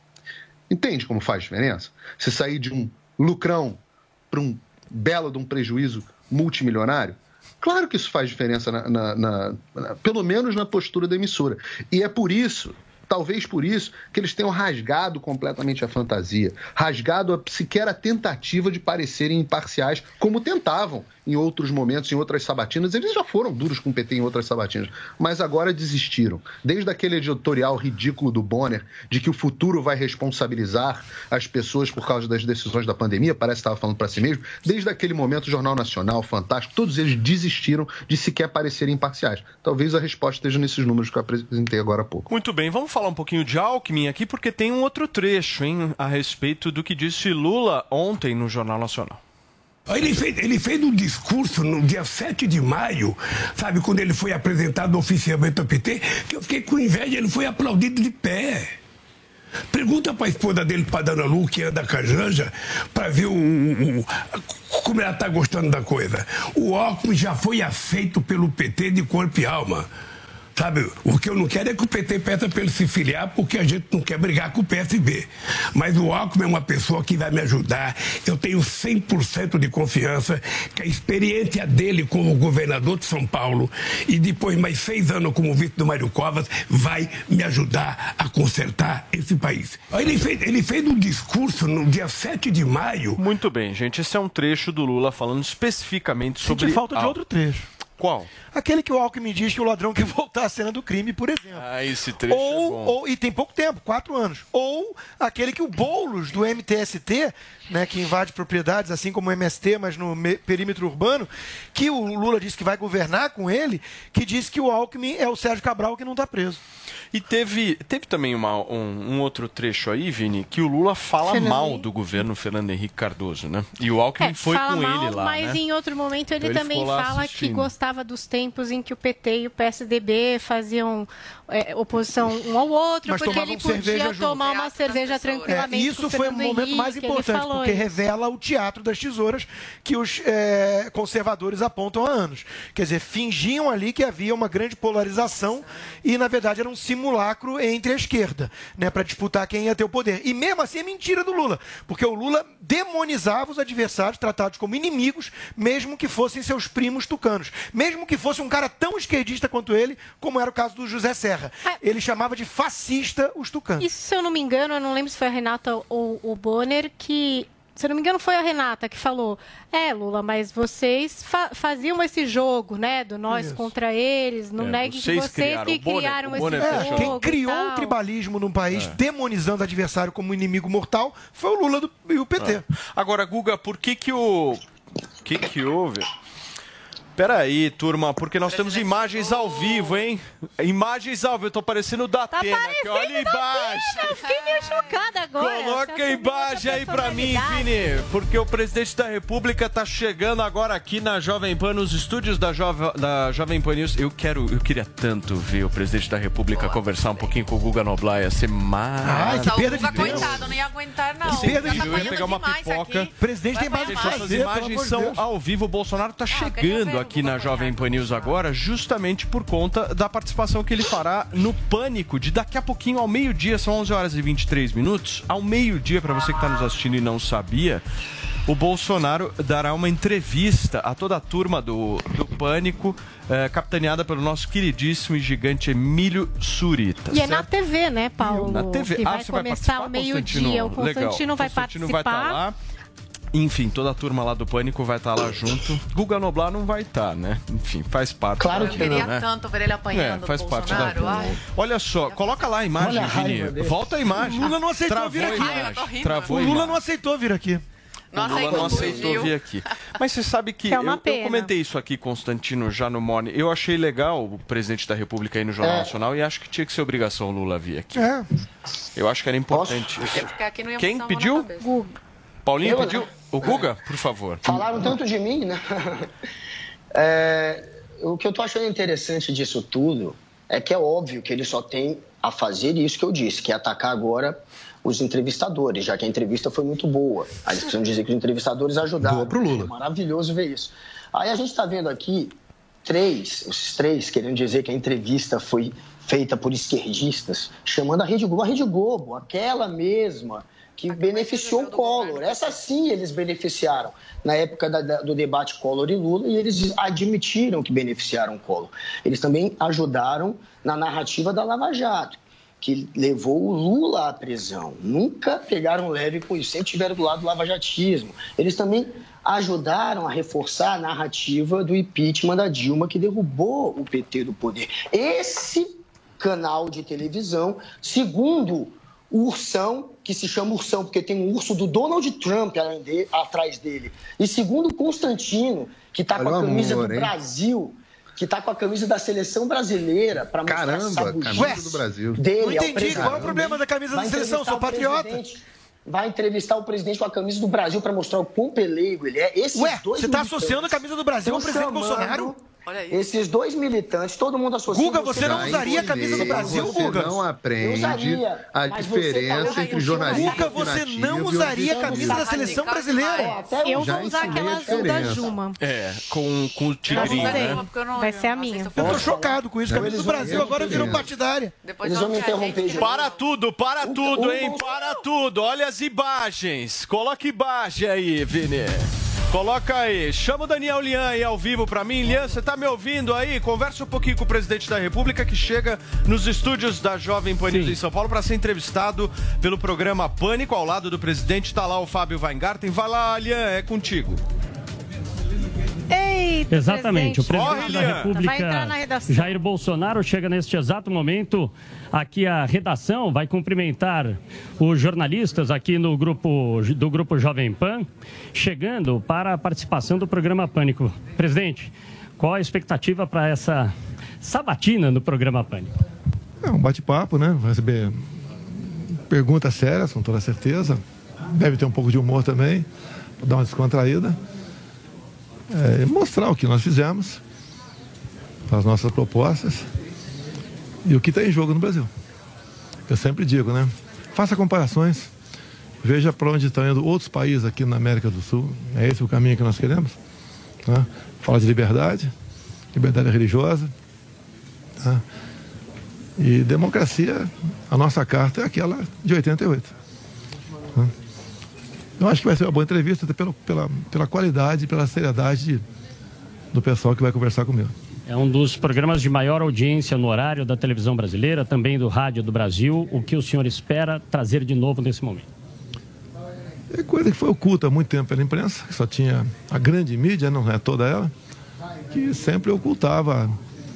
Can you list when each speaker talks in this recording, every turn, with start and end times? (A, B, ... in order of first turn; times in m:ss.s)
0:00.7-0:42.3 A
0:42.3-0:49.2 B
0:49.9-0:58.8 C
0:59.7-1:09.9 C
1:10.5-1:33.2 C
1:33.2-1:37.2 B
1:36.4-1:37.7 D
1:38.0-1:38.3 B
1:38.5-1:41.6 D
1:41.5-1:42.9 B
1:42.3-1:56.6 D
1:57.1-2:05.6 B
2:01.3-2:01.8 E
2:04.2-2:18.0 E
2:06.4-2:07.7 B
2:13.0-2:14.3 D
2:14.3-2:15.6 F
2:15.5-2:43.8 D
2:25.1-2:25.8 F
2:43.8-2:58.0 E
2:53.3-2:53.7 D
2:54.6-2:57.2 B
2:56.4-3:02.6 D
2:58.7-2:59.0 B
3:02.4-3:04.6 B
3:05.2-3:06.1 B
3:07.2-3:30.6 B
3:08.4-3:10.0 F
3:12.3-3:17.7 E
3:14.0-3:15.0 F
3:26.5-3:27.3 F
3:29.0-3:30.5 D
3:29.2-3:34.4 F
3:31.2-3:33.1 B
3:31.3-3:32.1 D
3:33.2-3:35.2 D
3:33.8-3:47.8 B
3:36.3-3:38.4 F
3:48.4-3:57.5 B
3:57.1-4:02.4 E
3:58.2-4:02.5 B
4:03.3-4:09.3 B
4:08.4-4:09.1 G
4:08.6-4:11.4 F
4:09.9-4:16.8 B
4:12.1-4:12.5 F
4:12.8-4:13.9 G
4:14.1-4:15.6 D
4:14.3-4:16.7 F
4:16.3-4:17.6 D
4:18.1-4:19.4 F
4:18.2-4:19.0 G
4:18.2-4:28.1 B
4:20.7-4:21.5 E
4:25.6-4:25.9 G
4:28.0-4:28.3 D
4:28.9-4:31.5 B
4:29.5-4:30.2 G
4:30.2-4:31.7 F
4:31.6-4:31.9 E
4:32.4-4:35.0 B
4:32.6-4:33.7 G
4:34.4-4:36.1 G
4:36.9-5:57.0 G
4:49.0-4:49.7 A
5:00.9-5:02.6 F
5:36.1-5:37.1 A
5:40.4-5:43.4 A
5:41.4-5:41.7 D
5:42.4-5:45.2 D
5:49.5-5:52.3 D
5:52.6-5:53.1 F
5:54.7-5:57.2 D
5:55.2-6:02.4 A
5:57.6-6:00.5 G
5:59.4-6:00.5 F
6:00.1-6:03.3 D
6:01.7-6:03.5 F
6:01.7-6:02.1 G
6:03.2-6:05.2 G
6:03.6-6:05.6 E
6:03.7-6:05.3 A
6:05.6-6:07.6 B
6:06.9-6:09.4 F
6:06.9-6:08.7 E
6:08.8-6:11.5 D
6:08.8-6:09.1 A
6:08.8-6:11.1 G
6:09.6-6:11.1 A
6:11.6-6:13.2 F
6:11.8-6:13.0 G
6:12.8-6:34.2 B
6:13.8-6:14.8 G
6:27.5-6:27.8 H
6:35.9-6:39.4 E
6:36.5-6:55.7 H
6:37.3-6:38.1 B
6:56.4-6:58.1 I
6:58.8-7:02.7 I
7:03.2-7:04.2 I
7:05.5-7:07.2 I
7:08.5-7:09.6 I
7:10.8-7:11.9 I
7:12.9-7:15.1 I
7:15.8-7:20.0 I
7:20.6-7:22.1 I
7:22.7-7:23.7 I
7:26.2-7:29.7 I
7:32.0-7:35.6 I
7:36.5-7:37.7 I
7:38.1-7:45.3 H
7:46.7-7:51.1 I
7:51.9-7:53.4 I